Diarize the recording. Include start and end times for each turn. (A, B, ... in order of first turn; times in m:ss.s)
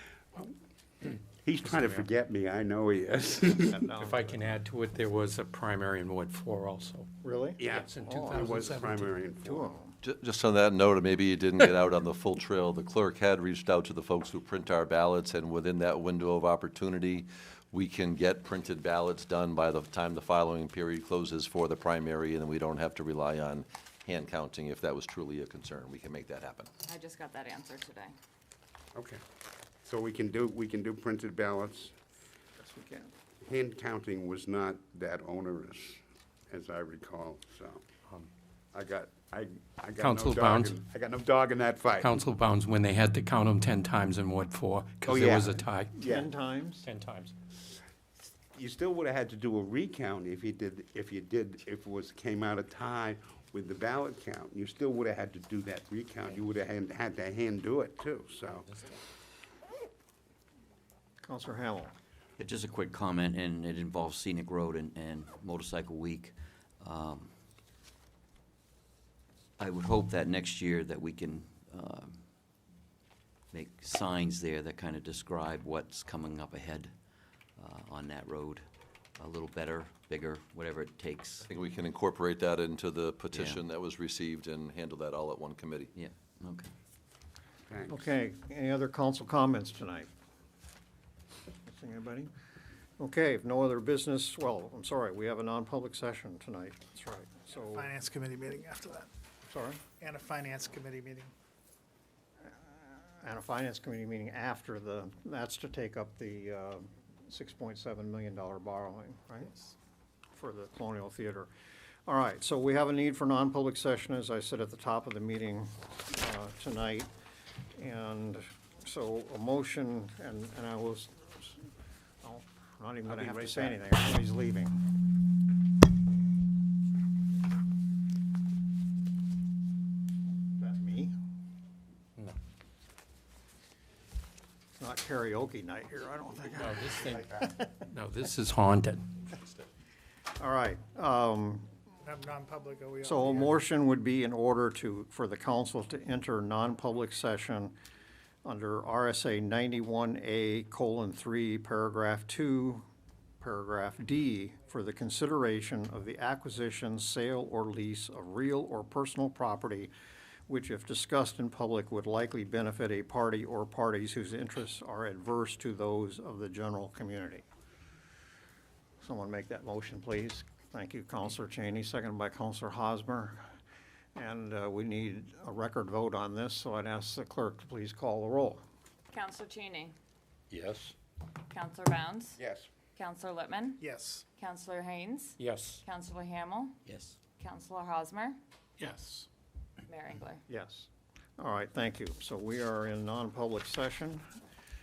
0:01.0-0:03.8 A
0:01.6-0:02.1 B
0:03.7-0:04.3 C
0:03.9-0:07.1 B
0:07.2-0:08.6 C
0:07.6-0:09.7 A
0:07.7-0:09.1 B
0:09.4-0:09.9 C
0:10.0-0:26.7 D
0:26.9-0:28.1 E
0:28.9-0:29.2 A
0:29.8-0:32.0 A
0:32.6-0:33.1 C
0:33.4-0:37.8 A
0:38.7-0:42.1 A
0:40.0-0:40.8 B
0:42.0-0:45.9 B
0:45.0-0:46.3 A
0:46.0-0:46.9 C
0:46.8-0:47.3 B
0:48.5-0:58.7 A
1:01.2-1:01.9 C
1:02.4-1:07.3 F
1:09.6-1:12.2 F
1:13.5-1:16.9 F
1:17.6-1:18.6 F
1:19.2-1:21.4 F
1:21.5-1:25.9 D
1:23.3-1:23.6 F
1:25.9-1:26.7 F
1:27.7-1:28.0 A
1:27.9-1:30.1 C
1:31.7-1:32.3 C
1:33.0-1:37.9 C
1:37.6-1:39.1 G
1:39.5-1:39.8 C
1:40.0-1:41.3 G
1:42.5-1:49.6 C
1:50.3-1:51.5 C
1:52.1-1:57.1 C
1:57.8-2:01.6 C
2:02.2-2:04.8 C
2:03.0-2:03.8 A
2:10.6-2:11.1 C
2:14.8-2:17.6 C
2:16.6-2:19.1 B
2:20.4-2:21.7 C
2:22.0-2:23.6 G
2:23.0-2:27.7 C
2:28.4-2:32.8 C
2:33.4-2:39.9 C
2:40.5-2:47.4 C
2:49.0-2:53.4 C
2:54.1-2:58.6 C
2:59.1-2:59.9 E
3:00.5-3:00.9 D
3:01.5-3:02.4 E
3:02.4-3:02.7 A
3:03.0-3:03.8 E
3:03.8-3:04.2 G
3:04.4-3:06.8 E
3:05.4-3:05.8 B
3:06.8-3:07.2 F
3:07.4-3:08.4 E
3:08.8-3:09.2 B
3:09.9-3:10.4 E
3:10.5-3:14.2 C